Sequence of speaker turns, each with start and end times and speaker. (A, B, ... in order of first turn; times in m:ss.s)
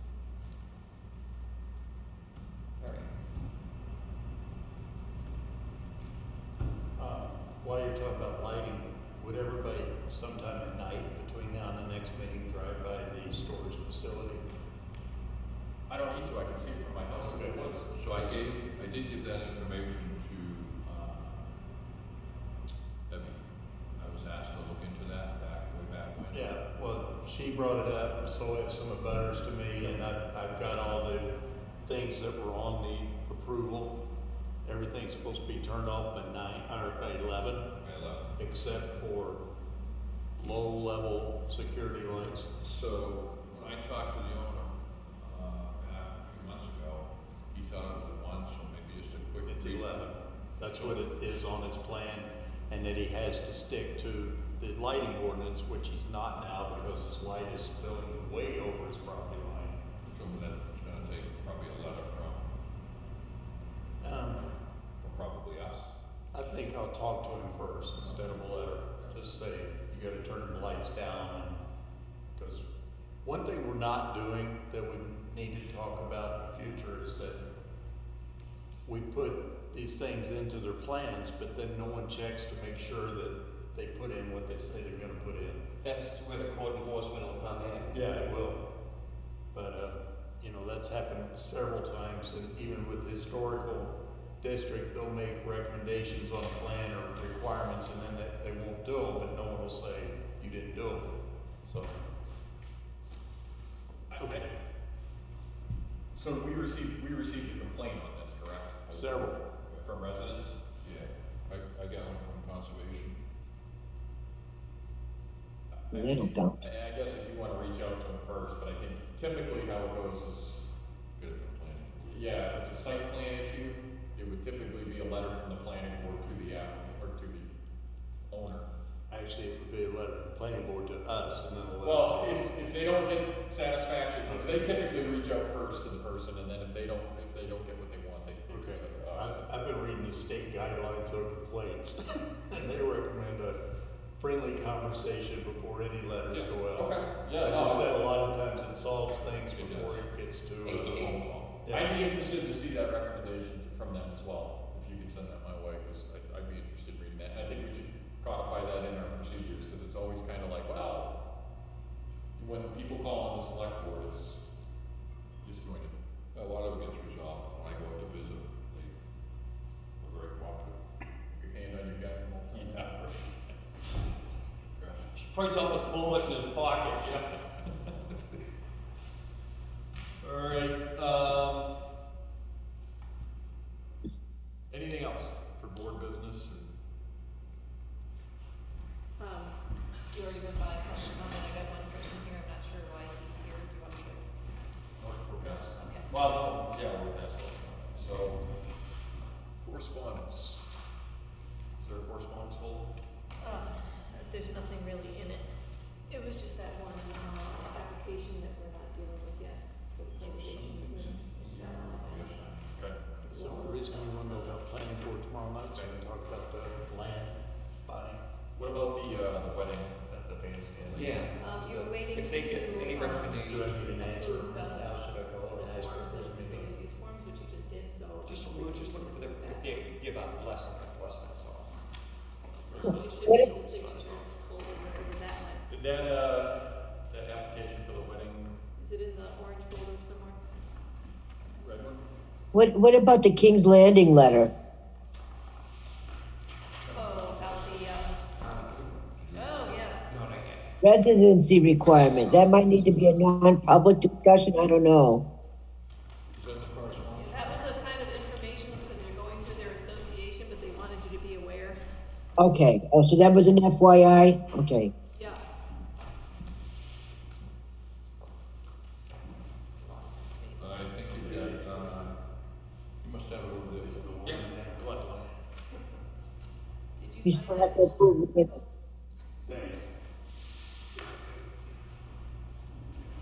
0:02.8-0:03.1 A
0:07.0-0:14.4 B
0:15.9-0:18.4 C
0:17.1-0:17.7 B
0:17.9-0:21.5 D
0:23.1-0:23.4 D
0:24.0-0:26.5 D
0:26.3-0:31.3 B
0:31.8-0:34.0 B
0:34.6-0:37.7 B
0:37.8-0:38.3 D
0:38.4-0:39.4 B
0:40.4-0:42.5 B
0:42.6-0:49.9 D
0:49.4-0:59.8 B
0:50.7-0:51.1 D
1:00.1-1:02.5 D
1:04.0-1:04.5 B
1:05.0-1:05.9 D
1:06.3-1:11.6 B
1:12.3-1:12.6 B
1:13.2-1:17.4 B
1:18.8-1:25.6 B
1:25.8-1:28.0 A
1:27.9-1:28.6 B
1:29.5-1:41.1 B
1:41.6-1:42.0 B
1:44.1-1:44.5 C
1:46.1-1:49.2 C
1:48.9-1:49.4 B
1:49.6-1:49.9 D
1:49.8-1:50.6 C
1:50.8-1:53.2 D
1:55.7-2:00.6 C
1:55.9-1:56.6 E
2:01.2-2:02.0 D
2:02.0-2:07.5 C
2:08.3-2:08.7 C
2:09.1-2:12.5 B
2:11.8-2:19.4 C
2:14.3-2:14.6 B
2:18.5-2:23.6 B
2:24.2-2:26.9 B
2:26.3-2:27.9 C
2:27.4-2:30.9 B
2:29.5-2:30.0 D
2:30.6-2:31.5 D
2:30.8-2:31.2 A
2:31.6-2:31.9 B
2:31.7-2:41.1 C
2:42.4-2:44.4 C
2:45.4-2:46.0 C
2:46.3-2:48.9 D
2:50.0-2:50.7 D
2:51.3-2:53.0 C
2:52.5-2:53.2 B
2:54.8-2:55.0 D
2:55.1-2:57.2 A
3:00.2-3:01.6 C
3:04.7-3:06.7 C
3:09.2-3:14.2 F
3:15.0-3:18.4 C
3:15.7-3:16.1 F
3:19.6-3:20.6 C
3:21.8-3:22.9 C
3:23.4-3:25.5 F
3:26.1-3:32.4 F
3:30.1-3:32.8 D
3:32.7-3:33.0 C
3:33.2-3:34.6 F
3:33.3-3:38.2 B
3:38.5-3:42.0 C
3:40.9-3:41.4 A
3:41.4-3:49.9 F
3:42.1-3:43.7 A
3:43.4-3:46.7 B
3:48.2-3:51.7 A
3:52.7-3:53.0 C
3:52.7-3:54.3 A
3:52.8-3:55.6 F
3:52.8-3:53.5 E
3:55.7-3:58.5 C
3:58.8-4:00.4 F
4:01.6-4:02.0 C
4:02.5-4:04.5 E
4:06.9-4:08.2 F
4:08.4-4:09.0 A
4:09.1-4:09.8 D
4:09.3-4:10.1 F
4:10.1-4:10.6 A
4:10.8-4:15.2 E
4:11.8-4:13.1 D
4:16.3-4:17.7 D
4:17.1-4:21.8 F
4:22.4-4:24.9 E
4:25.2-4:25.4 F
4:29.8-4:31.0 F
4:30.6-4:32.2 D
4:31.1-4:32.1 B
4:33.0-4:34.0 D
4:33.7-4:35.0 B
4:34.2-4:35.3 C
4:37.0-4:38.1 F
4:37.2-4:38.8 E
4:39.4-4:39.9 B